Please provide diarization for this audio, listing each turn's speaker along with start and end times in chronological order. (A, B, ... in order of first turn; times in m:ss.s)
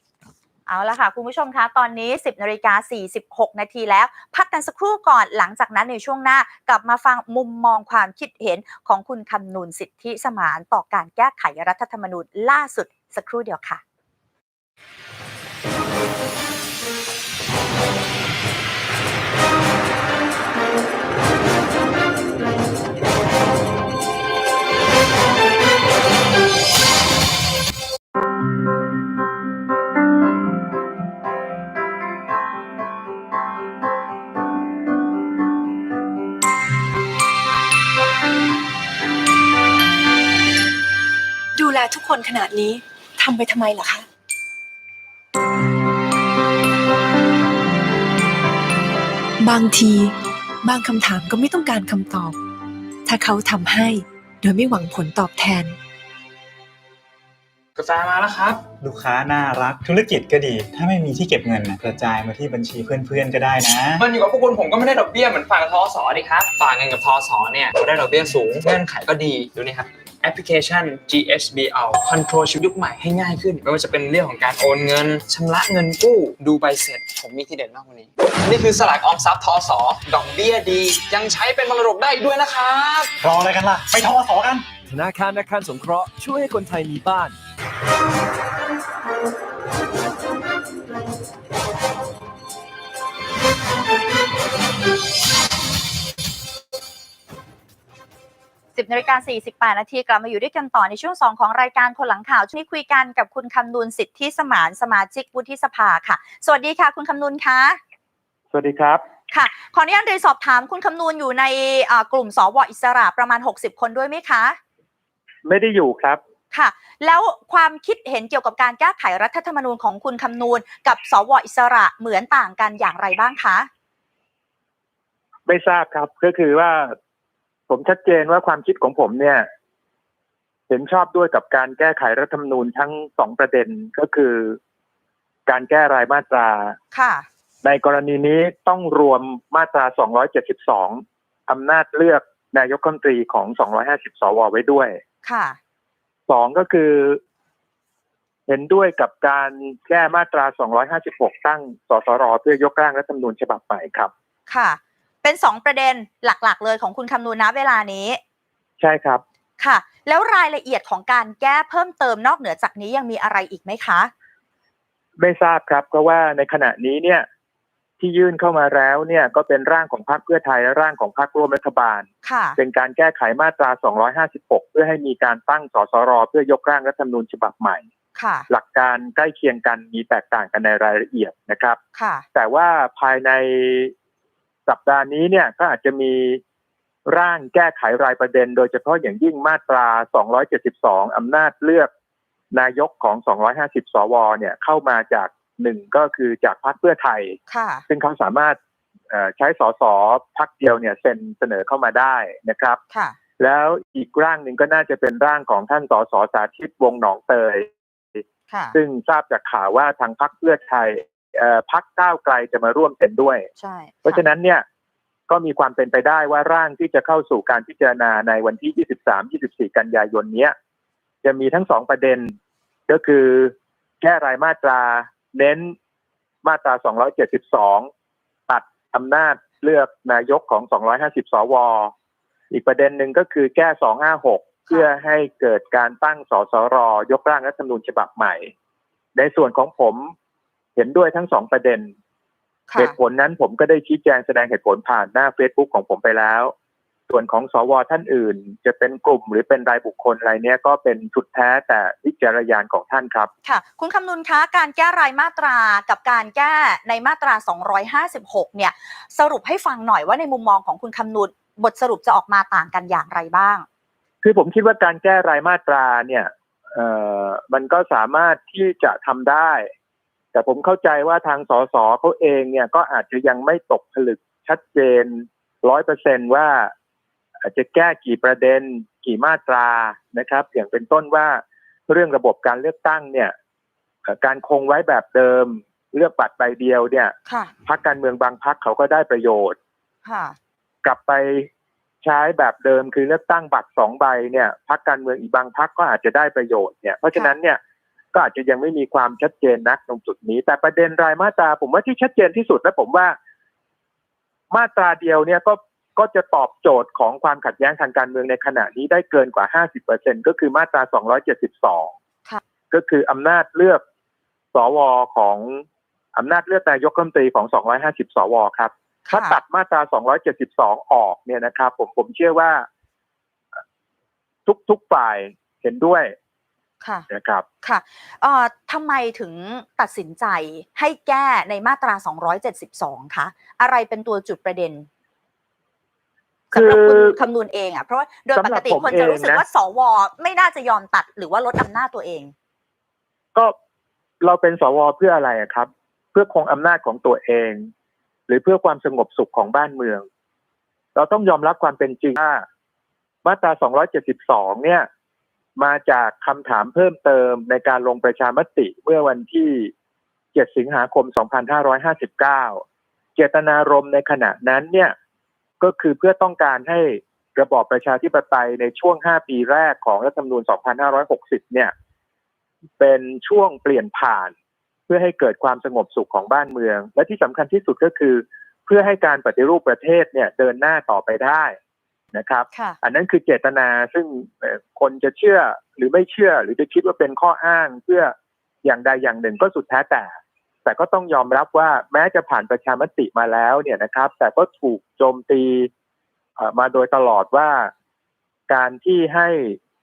0:00.7-0:13.8 A
0:41.6-0:44.1 B
0:49.4-0:52.4 B
0:53.0-0:55.8 B
0:57.8-0:58.6 C
0:58.8-1:04.0 D
1:04.0-1:23.1 C
1:23.2-1:24.7 D
1:24.9-1:27.4 E
1:38.8-1:47.8 A
1:48.5-1:49.0 F
1:49.3-1:54.6 A
1:55.4-1:56.2 F
1:56.5-2:03.7 A
2:05.5-2:07.0 F
2:07.7-2:09.5 F
2:10.7-2:14.6 F
2:15.5-2:16.8 F
2:16.9-2:17.2 A
2:17.6-2:25.0 F
2:25.2-2:25.6 A
2:26.3-2:27.2 F
2:28.5-2:34.1 F
2:34.5-2:38.2 A
2:38.8-2:39.2 F
2:39.6-2:44.1 A
2:45.2-2:47.2 F
2:48.0-2:57.8 F
2:52.2-2:52.6 A
2:58.2-2:58.5 A
2:58.5-3:01.8 F
3:01.9-3:02.2 A
3:02.3-3:03.9 F
3:04.7-3:06.4 F
3:07.1-3:11.9 F
3:12.5-3:17.4 F
3:17.5-3:17.8 A
3:17.9-3:18.6 F
3:19.1-3:22.8 F
3:23.4-3:28.2 F
3:28.5-3:28.8 A
3:28.7-3:33.5 F
3:33.6-3:34.2 A
3:34.0-3:34.6 F
3:35.3-3:40.5 F
3:41.2-3:42.3 F
3:42.9-3:45.7 F
3:46.4-3:47.9 F
3:48.5-3:51.9 F
3:52.5-3:58.5 F
3:59.1-4:00.1 F
4:00.8-4:01.9 F
4:02.7-4:02.9 A
4:02.8-4:06.5 F
4:07.1-4:13.3 F
4:13.4-4:23.6 A
4:24.2-4:29.7 F
4:30.3-4:36.7 F
4:37.4-4:43.3 F
4:44.0-4:47.1 F
4:47.2-4:47.5 A
4:47.6-4:49.6 F
4:50.0-4:50.4 A
4:50.8-4:51.5 F
4:52.0-4:57.6 F
4:58.1-5:03.2 F
5:04.5-5:11.9 F
5:12.7-5:13.8 F
5:14.5-5:22.7 F
5:19.0-5:19.4 A
5:24.5-5:26.1 F
5:27.1-5:27.4 F
5:27.6-5:34.9 A
5:36.5-5:37.2 F
5:36.5-5:42.3 A
5:38.3-5:39.4 F
5:44.2-5:47.7 F
5:48.3-5:50.1 F
5:50.9-5:52.4 F
5:53.2-5:54.9 F
5:55.6-5:59.7 F
6:00.3-6:02.6 F
6:03.2-6:04.9 F
6:05.6-6:11.7 F
6:12.8-6:14.3 F
6:14.9-6:21.6 F
6:22.1-6:30.1 F
6:30.6-6:35.7 F
6:36.4-6:37.7 F
6:38.5-6:39.6 F